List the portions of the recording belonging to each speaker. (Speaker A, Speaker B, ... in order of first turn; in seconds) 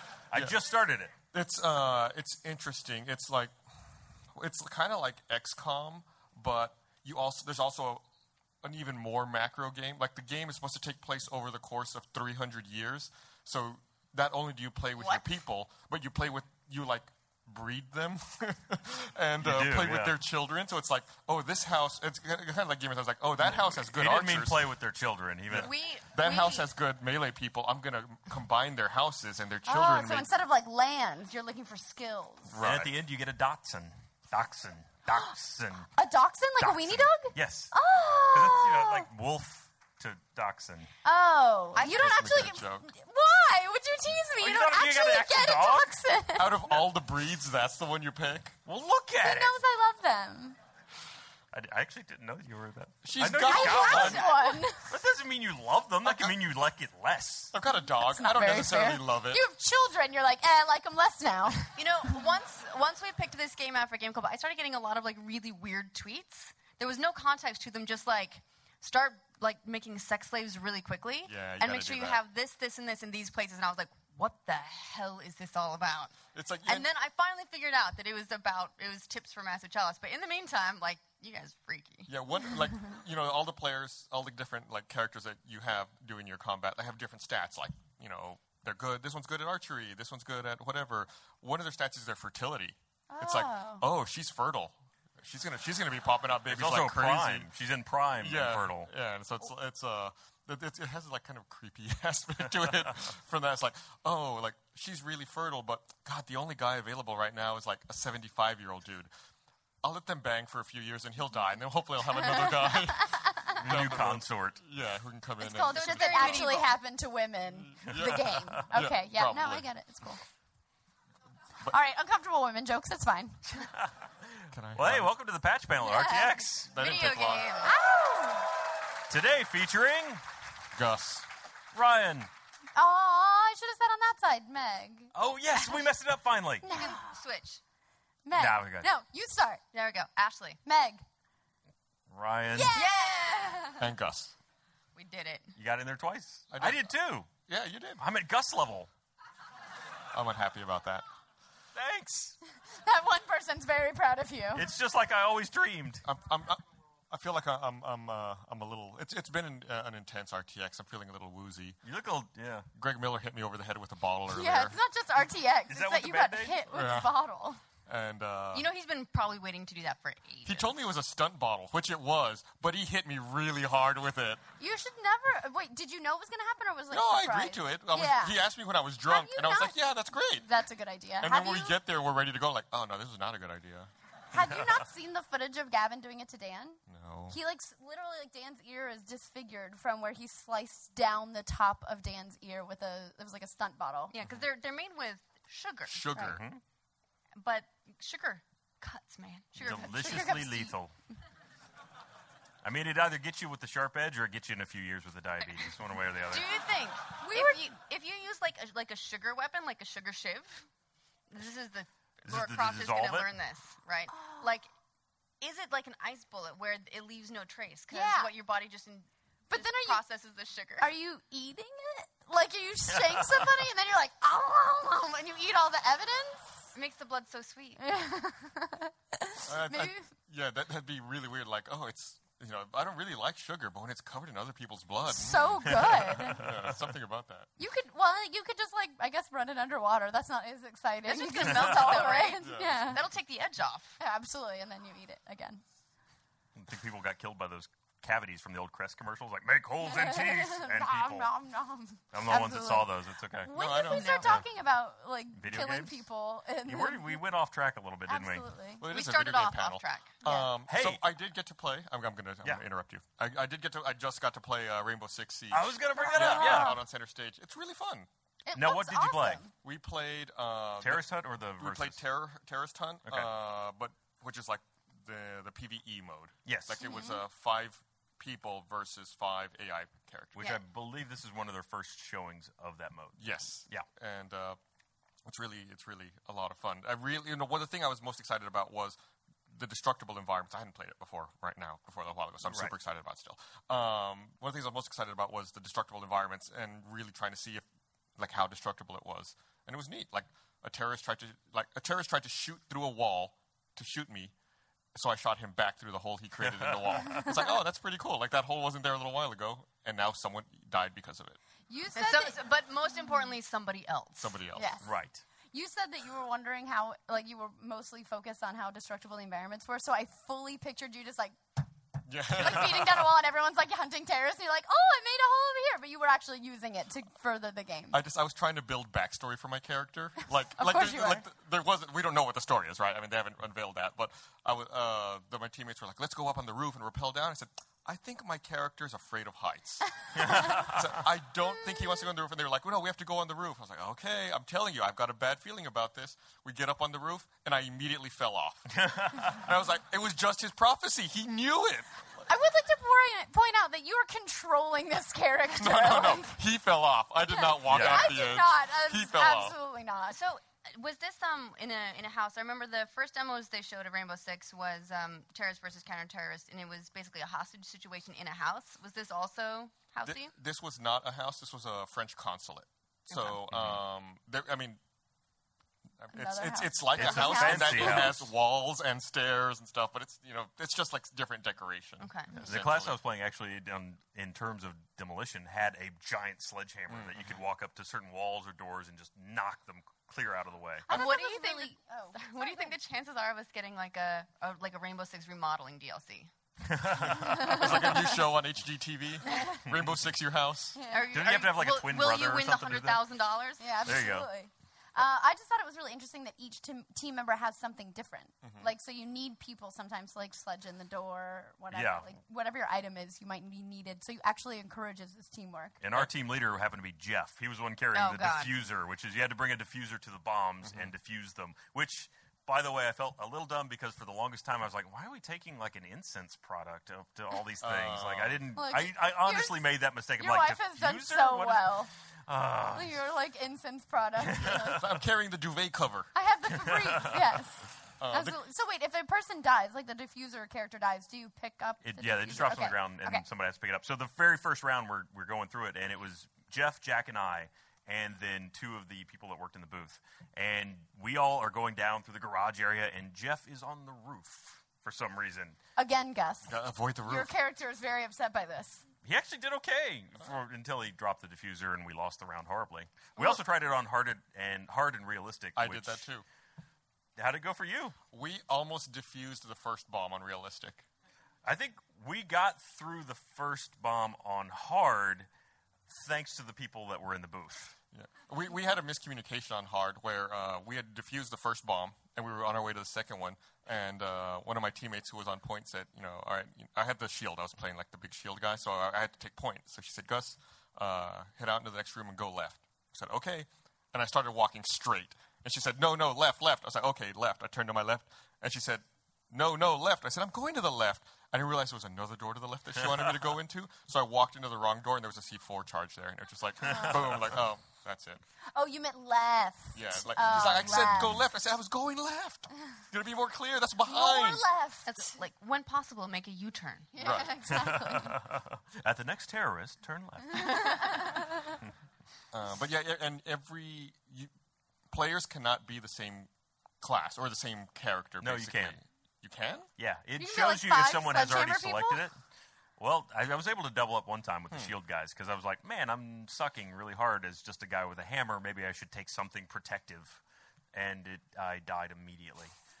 Speaker A: 0.3-1.1, 19.4-20.2, 23.4-25.7, 32.6-35.9, 36.6-37.7, 38.3-40.9, 44.4-45.9, 48.6-49.6, 51.5-57.5, 96.5-98.9, 113.6-114.6, 123.6-123.9, 124.7-126.8, 129.1-130.2, 131.7-132.3, 135.1-136.6, 138.3-138.9, 142.1-142.8, 145.6-147.3, 148.0-148.9, 151.7-152.4, 154.5-156.0, 161.8-162.7, 165.7-166.7, 196.1-196.6, 199.6-200.9, 202.6-206.5, 212.2-213.3, 235.6-236.7, 246.5-251.3, 252.1-253.5, 255.3-256.0, 256.6-258.5, 260.7-261.0, 265.5-266.8, 268.5-269.4, 270.8-272.0, 273.1-273.3, 276.4-276.8, 280.3-283.9, 292.4-292.7, 306.4-307.3, 314.8-315.2, 340.1-340.9, 348.7-349.4, 357.6-358.2, 373.4-373.8, 376.9-378.3, 382.4-391.0, 396.6-397.7, 401.1-403.0, 403.8-404.3, 411.7-412.1, 415.8-432.9, 434.2-434.6, 436.6-437.1, 441.8-455.6, 459.0-466.0, 467.1-468.0, 471.4-475.3, 475.9-477.7, 506.7-507.2, 517.5-520.7, 528.2-528.8, 529.8-532.1, 532.8-540.2, 540.7-542.5
Speaker B: 1.3-3.5, 4.3-8.0, 8.6-24.7, 25.5-30.3, 32.5-33.0, 41.8-42.9, 46.4-48.5, 53.0-54.2, 56.0-56.4, 57.5-59.4, 71.2-72.2, 76.3-76.9, 82.1-97.5, 98.1-109.1, 109.8-116.6, 117.5-119.7, 124.5-125.1, 126.7-127.5, 130.7-131.3, 143.8-144.3, 146.5-146.9, 147.4-148.0, 150.1-151.0, 156.0-161.8, 162.7-164.8, 166.7-167.1, 167.8-168.7, 170.4-174.4, 176.9-180.5, 181.2-184.8, 186.9-187.4, 195.9-196.4, 229.4-237.5, 242.3-243.0, 253.5-254.4, 258.8-268.1, 269.6-280.6, 283.2-284.6, 285.2-289.0, 289.5-297.6, 298.2-304.3, 304.9-311.4, 314.2-314.8, 322.1-323.1, 327.9-348.7, 349.2-351.9, 355.5-359.5, 370.0-374.8, 376.0-383.0, 386.9-387.3, 397.0-400.8, 408.4-408.7, 420.6-420.9, 427.6-428.4, 434.4-436.1, 438.0-438.4, 456.4-457.3, 465.5-466.2, 468.1-470.8, 477.9-508.2, 509.7-514.4, 517.0-517.3, 522.3-524.3, 524.9-526.3, 526.8-529.7, 534.5-534.7
Speaker C: 25.5-26.7, 41.8-42.0, 53.9-54.6, 61.8-82.1, 115.7-116.7, 126.8-127.7, 136.7-137.6, 139.7-140.6, 142.7-143.7, 144.9-145.5, 168.5-170.7, 194.1-196.0, 197.4-200.3, 206.3-210.6, 211.3-214.7, 215.4-220.9, 226.7-227.8, 241.1-243.9, 253.9-254.3, 258.8-260.2, 311.9-314.4, 360.1-370.3, 382.0-382.6, 390.9-396.3, 400.9-403.8, 417.9-418.6, 514.9-516.9
Speaker D: 29.6-32.5, 36.0-39.1, 41.0-46.7, 49.2-50.6, 53.5-54.9, 57.9-61.7, 93.1-93.8, 112.1-113.6, 115.4-120.2, 121.7-123.4, 125.8-126.4, 127.6-128.5, 132.8-135.9, 136.6-137.0, 138.2-139.6, 140.6-141.0, 142.5-143.8, 152.8-154.6, 164.3-167.6, 174.6-178.4, 179.0-179.8, 180.4-181.8, 184.3-186.8, 187.3-194.1, 199.7-200.7, 207.2-207.7, 214.1-214.5, 217.9-218.3, 219.5-220.0, 220.8-226.7, 227.8-230.1, 235.1-236.5, 237.6-243.0, 244.0-245.6, 249.8-257.2, 258.1-258.8, 260.2-260.5, 266.0-266.8, 268.4-269.5, 276.8-277.2, 311.7-312.4, 314.5-314.9, 315.5-321.4, 322.3-328.0, 330.6-331.2, 352.3-356.4, 357.2-360.2, 376.1-378.1, 390.9-392.7, 397.2-398.0, 400.7-401.1, 403.6-415.8, 428.5-429.6, 430.2-431.9, 432.7-434.9, 436.1-443.2, 455.8-458.8, 506.7-506.9, 508.5-511.2, 513.9-515.1, 516.9-518.1, 520.4-521.2, 530.2-532.0